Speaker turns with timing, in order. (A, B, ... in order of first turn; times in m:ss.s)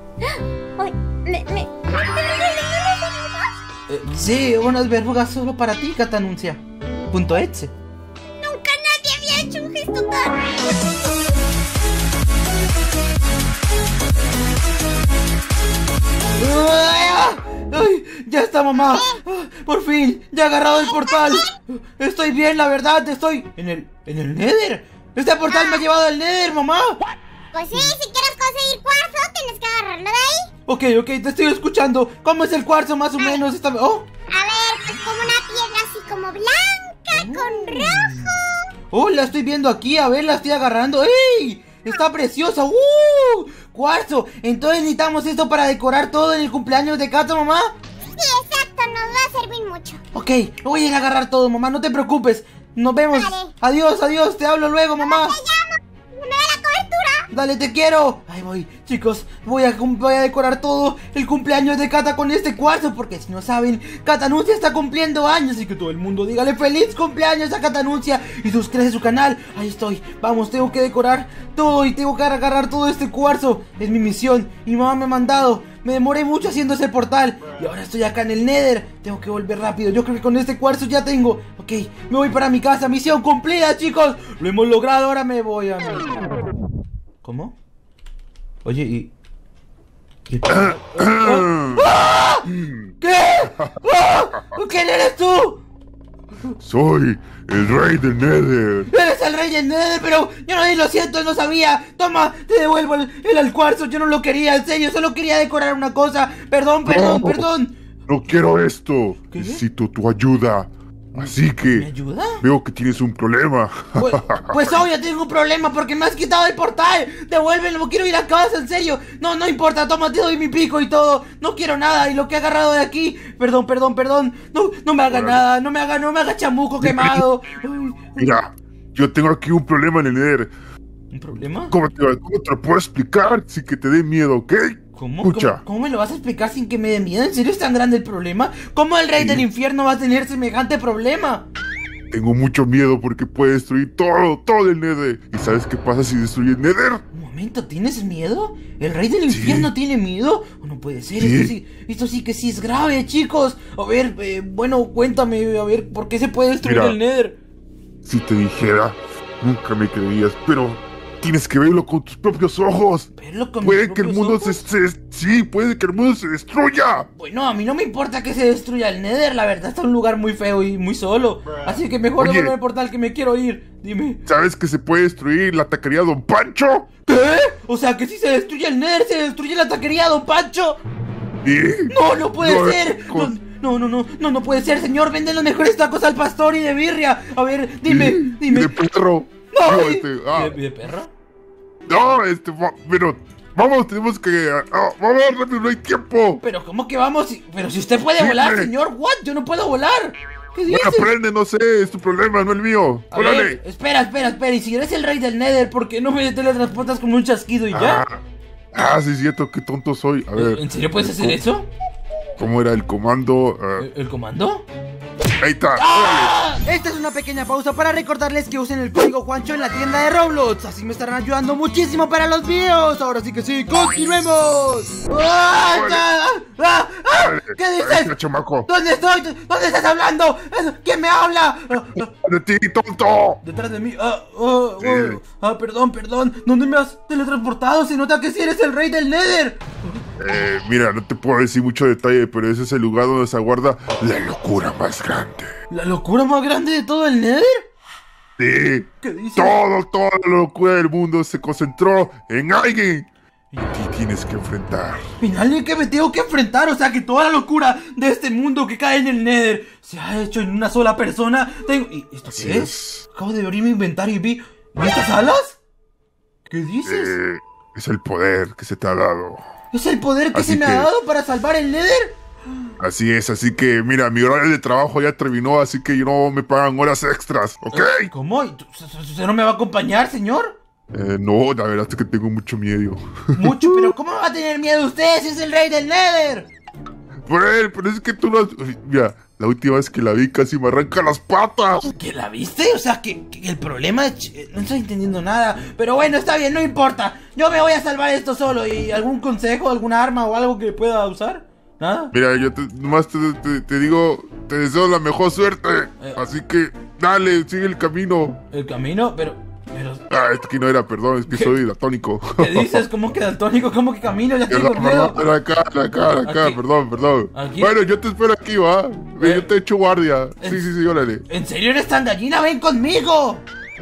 0:00.2-0:03.6 A
0:03.9-0:07.7 B
0:08.3-0:10.9 A
0:16.4-0:27.0 B
0:18.8-0:19.2 A
0:20.8-0:21.5 A
0:25.5-0:25.8 A
0:27.5-0:30.5 A
0:30.7-0:34.0 B
0:34.3-0:38.6 A
0:37.1-0:38.4 B
0:38.9-0:47.7 B
0:48.2-0:50.0 A
0:50.1-0:55.4 B
0:53.1-0:53.5 A
0:55.0-0:57.3 A
0:57.3-1:26.2 B
1:27.2-1:27.6 B
1:28.6-1:29.1 B
1:30.3-1:35.6 B
1:30.5-1:31.9 C
1:36.6-1:38.9 C
1:38.9-1:47.7 B
1:46.8-1:47.5 C
1:48.1-1:51.9 C
1:49.3-1:49.6 B
1:51.1-1:52.4 B
1:52.4-1:54.8 C
1:54.0-2:08.4 B
2:05.1-2:05.4 C
2:06.8-2:07.2 C
2:08.2-2:10.5 C
2:11.1-2:11.7 B
2:11.7-2:15.6 C
2:14.9-2:21.4 B
2:19.2-2:19.5 C
2:22.1-2:27.0 C
2:27.1-2:37.4 B
2:29.3-2:29.7 C
2:31.2-2:31.5 C
2:36.6-2:37.0 C
2:38.0-2:43.1 C
2:43.1-2:44.6 B
2:43.6-2:47.1 C
2:47.2-2:54.2 B
2:52.2-2:52.5 C
2:54.2-2:56.9 C
2:57.0-3:00.8 B
3:01.4-3:03.3 C
3:01.9-3:08.8 B
3:07.8-3:10.6 C
3:09.5-3:11.1 B
3:11.9-3:16.4 C
3:16.4-3:21.1 B
3:18.2-3:18.7 C
3:20.7-3:23.6 C
3:23.1-3:28.0 B
3:27.7-3:28.2 C
3:28.7-3:31.4 C
3:30.3-3:31.7 B
3:32.4-3:33.9 C
3:33.8-3:34.6 B
3:35.4-3:36.3 C
3:35.8-3:48.1 B
3:45.7-3:46.0 C
3:47.2-3:48.7 C
3:48.7-3:52.1 B
3:52.1-3:53.4 C
3:53.4-3:59.8 B
3:54.8-3:55.2 C
4:00.2-4:05.5 C
4:05.7-4:07.6 B
4:08.4-4:13.1 C
4:09.0-4:09.6 B
4:13.5-4:13.8 B
4:13.7-4:15.1 C
4:15.2-4:25.6 B
4:22.3-4:23.0 C
4:26.5-4:27.2 B
4:26.8-4:29.4 C
4:29.7-4:32.1 B
4:30.3-4:30.9 C
4:32.8-4:38.1 C
4:37.7-4:40.6 B
4:40.9-4:43.9 C
4:43.3-4:46.5 B
4:47.3-4:51.9 C
4:51.9-5:02.1 B
5:02.1-5:08.4 C
5:08.5-5:10.1 B
5:10.1-5:12.8 C
5:11.3-5:11.5 B
5:12.4-5:15.3 B
5:14.5-5:21.2 C
5:16.1-5:16.6 B
5:17.3-5:17.8 B
5:19.2-5:19.5 B
5:20.4-5:20.7 B
5:21.2-5:23.4 B